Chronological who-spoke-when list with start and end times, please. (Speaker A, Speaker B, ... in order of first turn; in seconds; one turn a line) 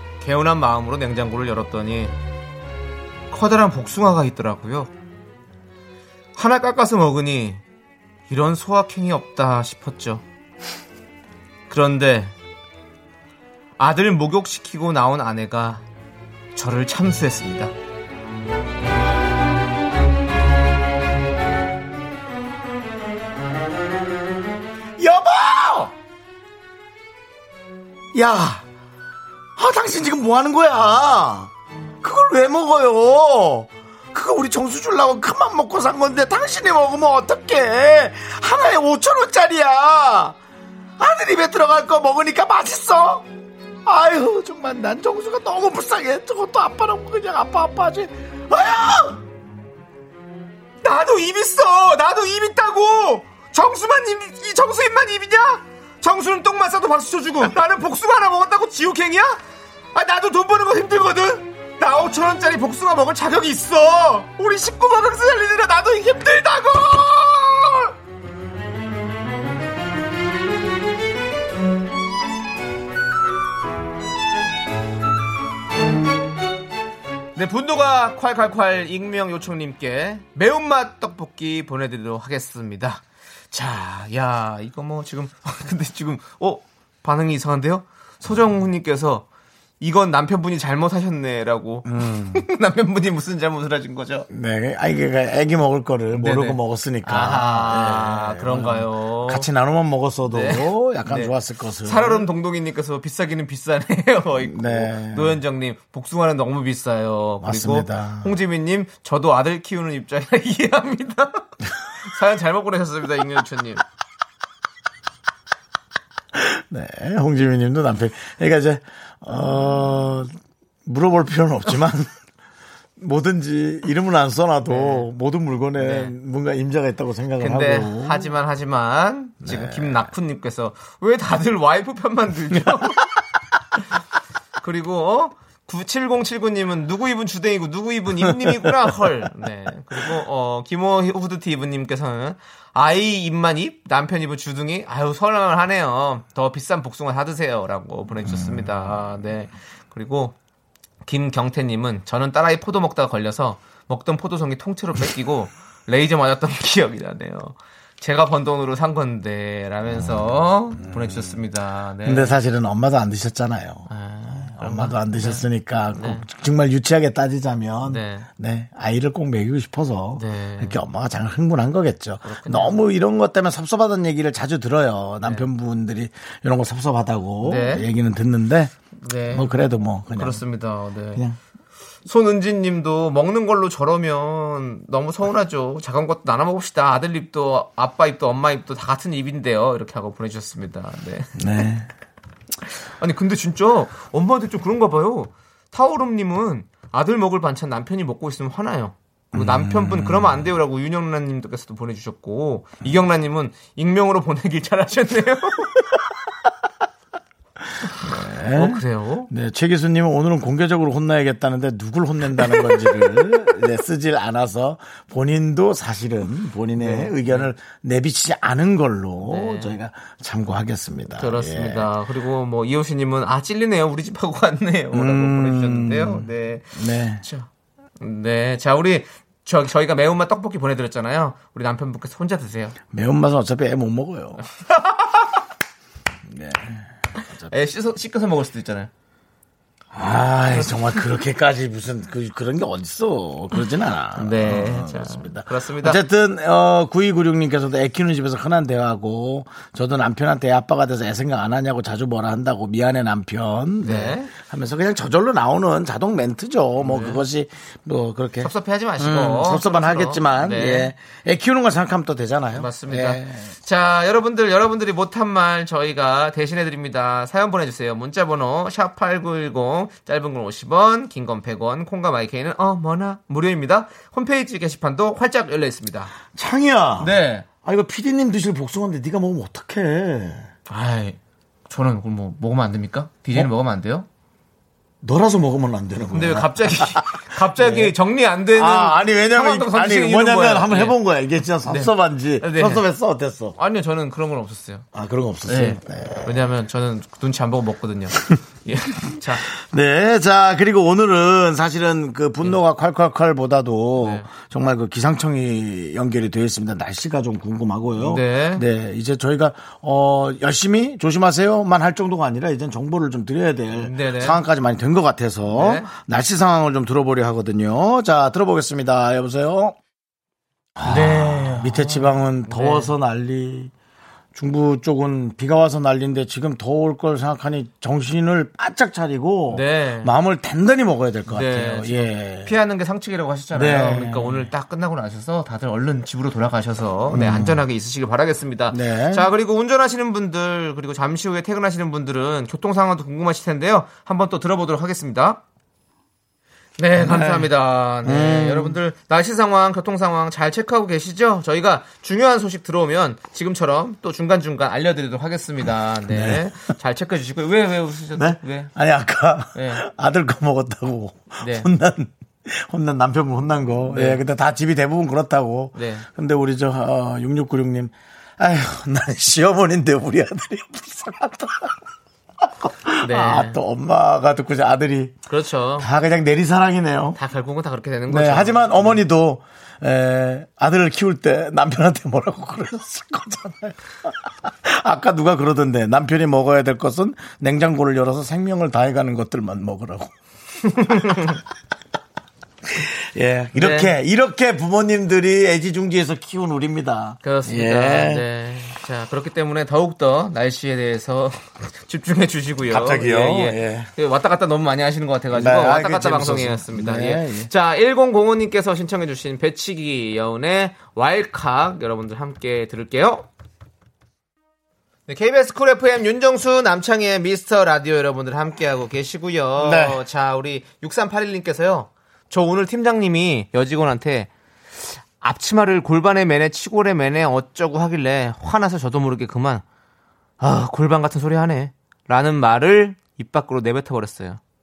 Speaker A: 0.2-2.1
Speaker A: 3.3-4.9
Speaker A: 6.3-7.6
Speaker A: 8.3-10.2
Speaker A: 11.7-12.3
Speaker A: 13.8-15.8
Speaker A: 16.5-17.7
Speaker B: 25.0-25.9
Speaker B: 28.1-28.6
Speaker B: 29.6-31.5
Speaker B: 32.0-40.4
Speaker B: 41.0-43.2
Speaker B: 43.8-49.2
Speaker A: 50.8-59.4
Speaker A: 59.9-67.9
Speaker A: 77.3-89.2
Speaker A: 89.8-94.3
Speaker B: 91.8-92.4
Speaker B: 94.3-102.3
Speaker A: 96.1-99.5
Speaker A: 100.3-113.8
Speaker B: 104.4-105.4
Speaker B: 107.4-108.3
Speaker B: 116.3-122.1
Speaker B: 123.0-128.3
Speaker A: 124.7-125.1
Speaker A: 125.8-126.1
Speaker A: 127.4-133.1
Speaker B: 129.4-130.1
Speaker A: 134.6-150.3
Speaker B: 138.3-138.7
Speaker B: 148.2-148.9
Speaker A: 151.1-162.4
Speaker B: 160.8-161.3
Speaker B: 162.0-178.7
Speaker A: 163.9-166.2
Speaker A: 167.8-168.3
Speaker A: 170.2-170.8
Speaker A: 172.2-172.8
Speaker A: 177.4-177.9
Speaker A: 179.0-179.5
Speaker B: 179.3-180.4
Speaker A: 180.2-181.2
Speaker A: 182.1-191.3
Speaker B: 191.4-191.9
Speaker A: 193.0-205.8
Speaker B: 199.3-200.5
Speaker A: 208.0-209.3
Speaker B: 208.0-221.9
Speaker A: 216.8-217.5
Speaker A: 219.2-219.7
Speaker A: 221.2-232.8
Speaker B: 224.9-227.2
Speaker B: 232.9-234.4
Speaker A: 234.5-235.3
Speaker B: 236.2-237.5
Speaker A: 237.5-238.9
Speaker B: 239.9-263.5
Speaker A: 244.2-246.0
Speaker A: 253.8-254.3
Speaker A: 256.8-257.2
Speaker A: 258.4-260.9
Speaker A: 262.5-276.1
Speaker B: 276.3-280.5
Speaker A: 277.0-277.4
Speaker A: 280.7-281.2
Speaker A: 281.7-284.1
Speaker B: 285.0-287.9
Speaker A: 286.1-291.0
Speaker B: 288.5-293.6
Speaker A: 291.6-292.8
Speaker A: 293.6-294.9
Speaker B: 294.9-296.4
Speaker A: 295.5-299.4
Speaker B: 299.5-319.8
Speaker A: 304.0-304.3
Speaker A: 308.0-308.6
Speaker A: 313.8-314.4
Speaker A: 315.5-315.9
Speaker B: 320.8-323.7
Speaker A: 320.8-322.9
Speaker B: 324.3-332.5
Speaker A: 329.5-330.1
Speaker A: 331.3-345.4
Speaker B: 333.5-334.5
Speaker B: 337.1-337.6
Speaker B: 338.7-339.3
Speaker A: 346.8-358.7
Speaker B: 346.9-347.5
Speaker B: 348.0-348.8
Speaker B: 356.1-356.4
Speaker B: 358.1-371.7
Speaker A: 359.5-359.8
Speaker A: 361.4-361.7
Speaker A: 363.9-364.2
Speaker A: 365.7-366.1
Speaker B: 372.4-375.1
Speaker A: 373.0-373.6
Speaker A: 375.3-375.9
Speaker B: 375.8-377.2
Speaker A: 377.1-379.0
Speaker B: 378.1-390.1
Speaker A: 390.7-391.4
Speaker B: 390.9-391.2
Speaker B: 392.7-398.2
Speaker A: 393.5-393.9
Speaker A: 397.2-413.3
Speaker B: 402.7-403.9
Speaker B: 405.3-407.5
Speaker A: 415.1-424.3
Speaker B: 419.6-420.0
Speaker A: 424.8-429.6
Speaker A: 430.4-434.4